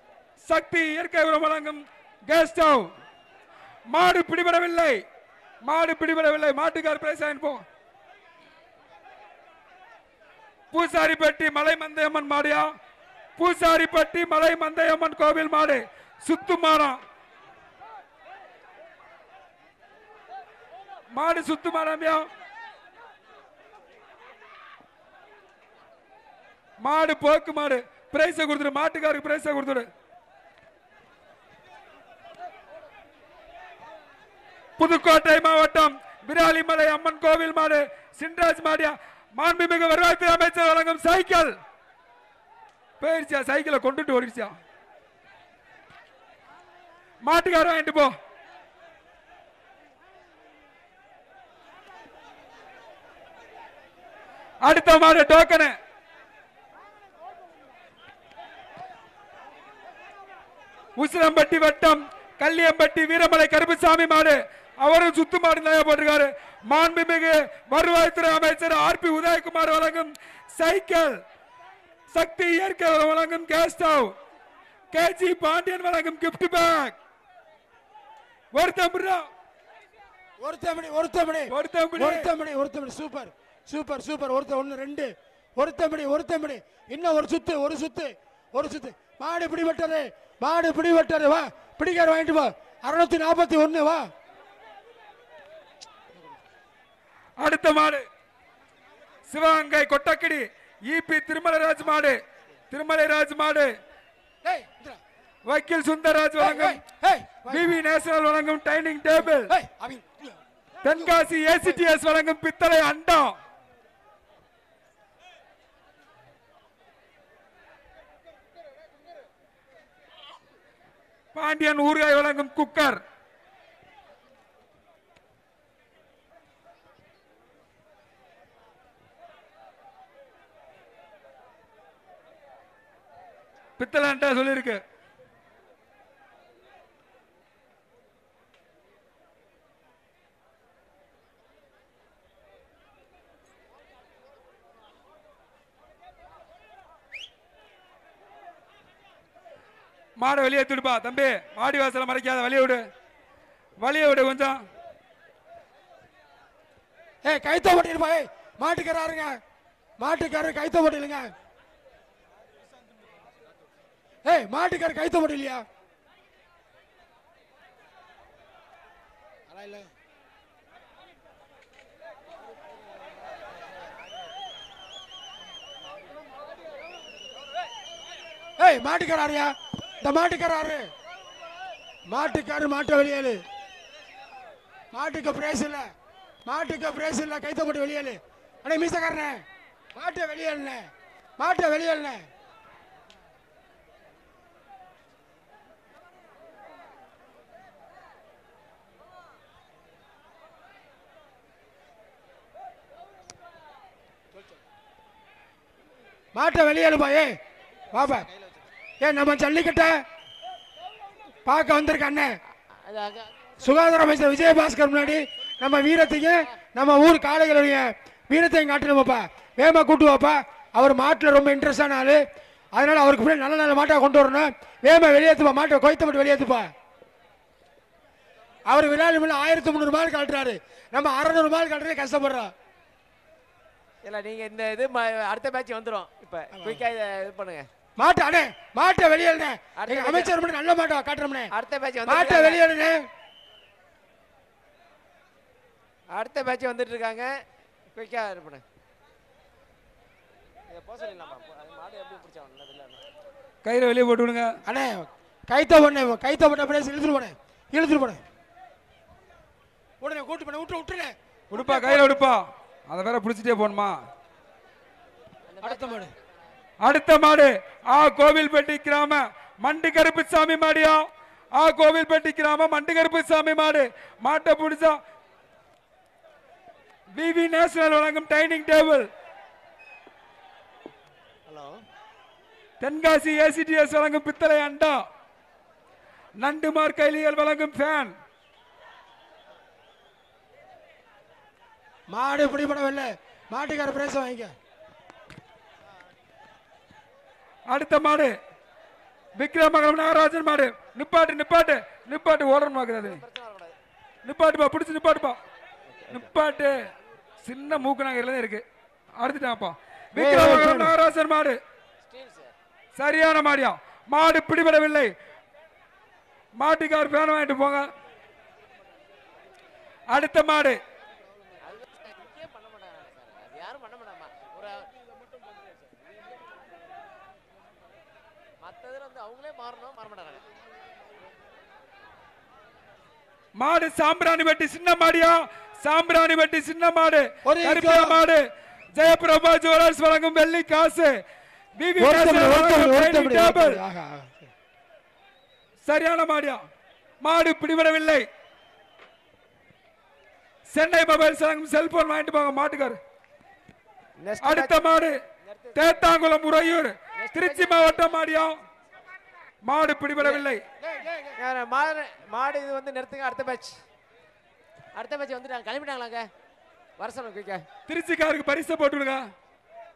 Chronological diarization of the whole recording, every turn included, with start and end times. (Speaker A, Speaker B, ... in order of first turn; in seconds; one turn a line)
Speaker A: 0.4-2.9
Speaker A: 3.9-5.0
Speaker A: 5.6-7.6
Speaker A: 10.7-12.7
Speaker A: 13.4-17.0
Speaker A: 21.1-22.3
Speaker A: 26.8-29.9
Speaker A: 34.8-41.5
Speaker A: 43.0-44.5
Speaker A: 47.2-48.1
Speaker A: 54.6-55.8
Speaker A: 61.0-71.2
Speaker A: 72.1-74.1
Speaker A: 74.9-77.0
Speaker A: 78.5-79.3
Speaker B: 80.4-94.1
Speaker A: 81.5-82.3
Speaker A: 97.4-98.0
Speaker A: 99.3-103.8
Speaker B: 104.4-105.0
Speaker A: 105.5-106.8
Speaker B: 106.4-107.7
Speaker A: 107.5-109.5
Speaker B: 109.2-111.8
Speaker A: 110.8-113.4
Speaker A: 121.3-123.0
Speaker A: 133.8-134.8
Speaker A: 150.2-152.8
Speaker A: 153.8-154.6
Speaker B: 157.2-159.4
Speaker B: 160.0-161.3
Speaker B: 164.2-165.6
Speaker B: 169.5-169.9
Speaker B: 178.6-180.9
Speaker B: 182.1-183.4
Speaker B: 184.9-185.9
Speaker B: 186.4-189.4
Speaker B: 189.9-192.2
Speaker B: 206.3-207.4
Speaker B: 207.9-208.3
Speaker B: 209.0-210.0
Speaker B: 211.4-212.4
Speaker C: 212.7-213.9
Speaker B: 213.6-222.2
Speaker B: 222.7-226.7
Speaker B: 228.7-232.5
Speaker C: 234.0-237.7
Speaker B: 236.5-236.8
Speaker B: 238.0-241.5
Speaker C: 239.8-240.3
Speaker C: 241.5-242.6
Speaker B: 242.1-243.0
Speaker C: 246.1-247.3
Speaker C: 247.9-248.6
Speaker C: 250.7-253.0
Speaker A: 253.6-254.6
Speaker B: 254.7-258.2
Speaker B: 260.0-262.2
Speaker A: 261.5-264.0
Speaker C: 265.5-266.5
Speaker B: 265.6-266.1
Speaker A: 266.8-275.0
Speaker A: 277.1-279.1
Speaker C: 281.5-281.8
Speaker A: 282.8-285.0
Speaker A: 286.4-288.1
Speaker B: 292.1-294.5
Speaker A: 297.7-298.3
Speaker A: 299.4-303.2
Speaker C: 303.0-303.7
Speaker A: 304.2-305.4
Speaker A: 306.1-306.9
Speaker A: 307.4-308.6
Speaker A: 309.2-311.6
Speaker B: 310.1-310.9
Speaker C: 312.0-312.5
Speaker A: 312.9-315.1
Speaker A: 316.6-317.9
Speaker A: 320.1-320.8
Speaker C: 321.6-324.9
Speaker C: 328.6-330.4
Speaker A: 333.6-341.1
Speaker B: 337.4-338.2
Speaker A: 341.8-343.8
Speaker B: 342.0-344.5
Speaker A: 345.8-346.6
Speaker A: 347.2-348.2
Speaker A: 350.7-353.0
Speaker C: 354.2-354.7
Speaker A: 354.4-355.2
Speaker C: 355.4-356.1
Speaker A: 355.7-358.6
Speaker C: 357.2-358.1
Speaker A: 359.6-360.6
Speaker C: 360.2-360.4
Speaker B: 360.8-361.4
Speaker C: 361.4-363.8
Speaker C: 364.9-366.3
Speaker C: 367.0-367.6
Speaker A: 367.9-369.3